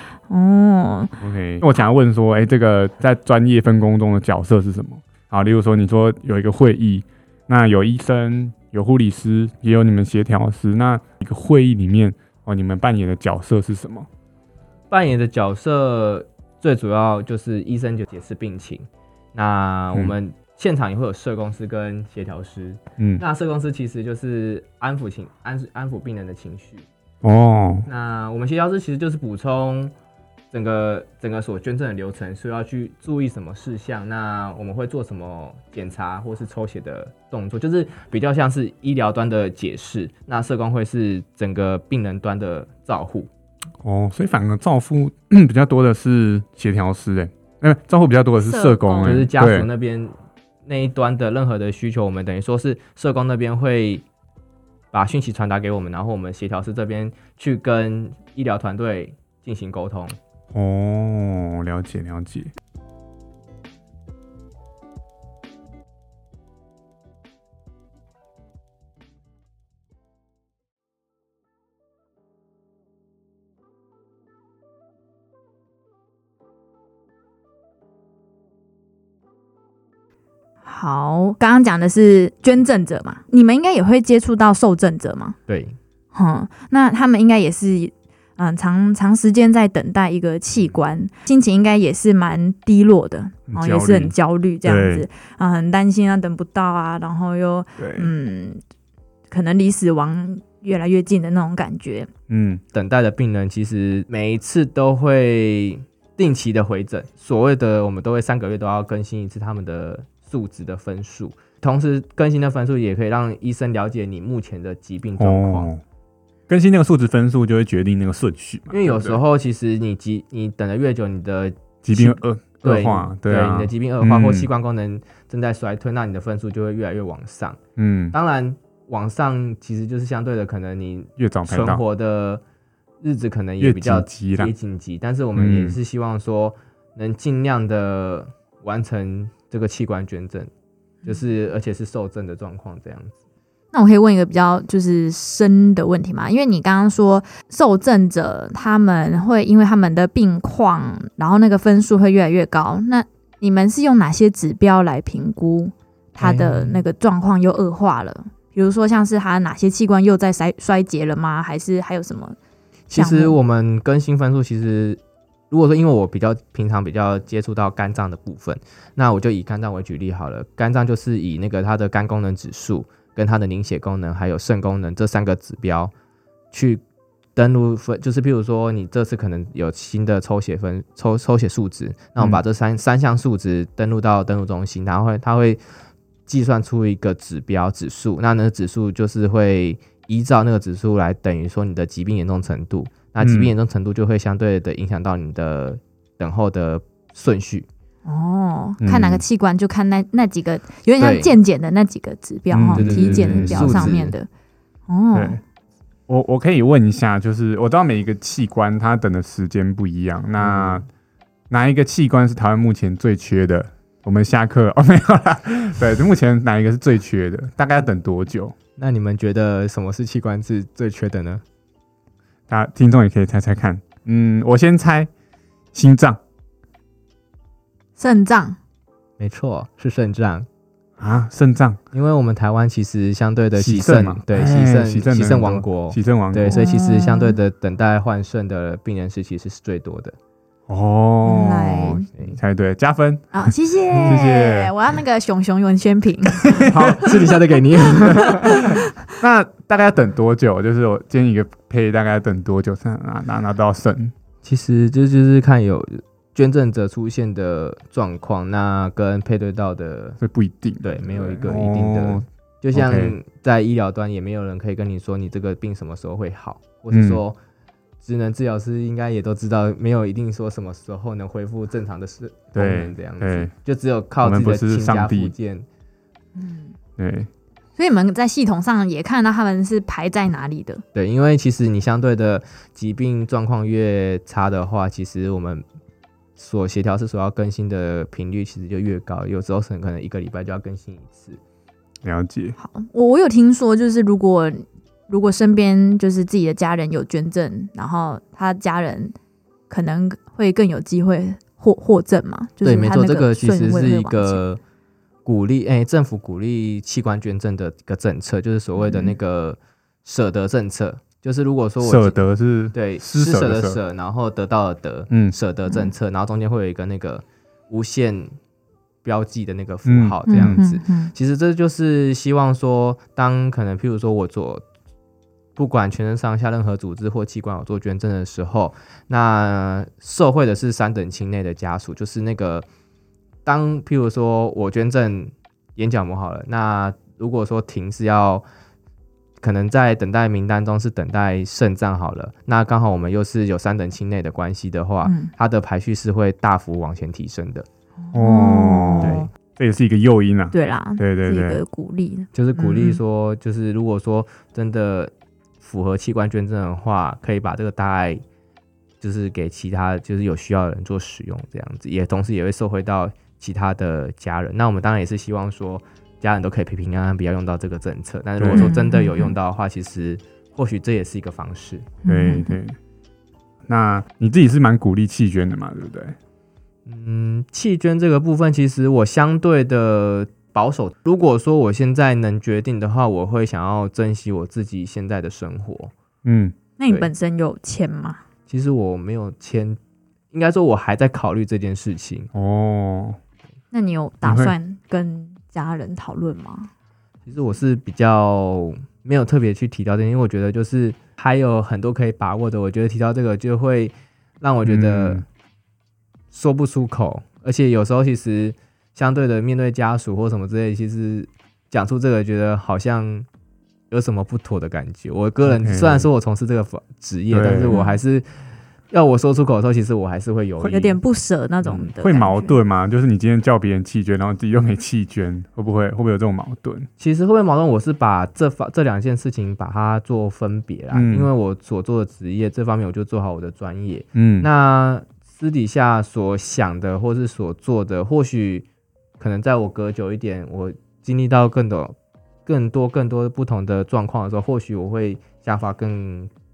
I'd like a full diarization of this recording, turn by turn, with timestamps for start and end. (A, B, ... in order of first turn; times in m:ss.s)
0:00.3-0:01.2 A
0:01.2-0:14.1 B
0:14.9-0:26.9 C
0:27.2-0:27.9 B
0:27.9-0:29.9 C
0:30.5-0:43.3 C
0:43.8-0:49.7 B
0:48.4-0:49.3 A
0:49.0-0:50.2 C
0:50.7-0:54.0 C
0:54.9-1:00.2 C
1:00.5-1:02.5 B
1:20.6-1:25.4 A
1:25.5-1:25.8 C
1:26.1-1:38.6 A
1:33.5-1:35.0 B
1:37.8-1:38.1 B
1:39.3-1:42.1 A
1:42.3-1:42.6 B
1:42.7-1:55.7 C
1:55.2-1:55.8 B
1:56.5-1:59.2 B
1:58.7-2:07.6 C
2:01.8-2:04.5 B
2:07.8-2:08.1 B
2:08.1-2:12.4 C
2:11.2-2:11.8 B
2:13.0-2:20.5 C
2:13.6-2:14.5 B
2:15.4-2:15.8 B
2:21.0-2:23.2 C
2:23.7-2:42.4 A
2:36.2-2:36.8 C
2:42.9-2:43.4 A
2:42.9-2:45.0 C
2:45.5-2:55.9 C
2:56.5-2:56.8 C
2:57.4-3:05.6 C
3:06.3-3:17.7 C
3:13.2-3:13.5 B
3:18.1-3:24.3 A
3:18.8-3:19.2 B
3:21.0-3:21.3 C
3:22.5-3:24.0 B
3:22.7-3:24.2 C
3:24.9-3:25.4 A
3:25.1-3:25.4 B
3:26.1-3:30.9 B
3:30.4-3:30.8 C
3:31.5-3:38.6 B
3:38.8-3:41.4 C
3:42.5-3:45.1 B
3:45.7-3:46.2 B
3:48.0-3:48.6 A
3:49.2-3:50.5 C
3:51.0-3:51.8 B
3:51.9-4:00.2 C
3:53.6-3:56.6 B
3:56.5-3:57.4 A
4:00.7-4:04.7 B
4:01.2-4:02.1 A
4:03.3-4:06.6 A
4:06.6-4:08.8 C
4:08.2-4:14.1 B
4:14.4-4:20.2 C
4:20.2-4:23.2 B
4:20.8-4:27.4 C
4:26.9-4:27.2 B
4:28.0-4:35.7 C
4:32.6-4:33.5 B
4:34.2-4:35.3 B
4:36.4-4:36.7 A
4:37.0-4:37.3 B
4:37.8-4:40.8 A
4:41.0-4:45.6 C
4:46.4-4:51.4 C
4:52.0-4:52.6 B
4:52.6-4:59.2 A
4:59.7-5:04.4 A
5:02.6-5:04.6 C
5:05.2-5:12.2 C
5:08.8-5:09.1 A
5:11.8-5:13.8 B
5:12.7-5:18.3 C
5:19.0-5:24.6 C
5:19.9-5:20.6 B
5:20.3-5:21.1 A
5:25.6-5:32.6 C
5:33.4-5:38.4 C
5:39.4-5:47.7 C
5:45.0-5:45.3 A
5:48.0-5:49.3 A
5:48.1-5:51.6 B
5:49.0-5:49.3 C
5:50.5-5:53.0 A
5:52.3-5:58.2 C
5:59.0-6:11.9 C
6:08.4-6:08.7 B
6:08.5-6:09.3 A
6:12.0-6:12.6 A
6:12.0-6:12.8 B
6:13.7-6:16.2 B
6:16.9-6:25.9 C
6:26.2-6:26.6 B
6:26.8-6:28.2 A
6:28.5-6:29.8 C
6:30.3-6:32.3 C
6:32.3-6:33.2 B
6:33.7-6:36.7 A
6:34.2-6:34.5 B
6:37.3-6:45.2 C
6:44.7-6:45.2 B
6:46.3-6:53.3 C
6:53.9-6:58.3 C
6:55.5-6:56.1 B
6:57.3-6:57.8 B
6:57.7-6:58.0 A
6:58.9-7:01.0 C
7:00.6-7:02.6 A
7:01.7-7:06.9 B
7:07.0-7:18.7 C
7:10.9-7:11.3 B
7:14.2-7:14.5 B
7:19.2-7:22.0 C
7:22.5-7:26.3 C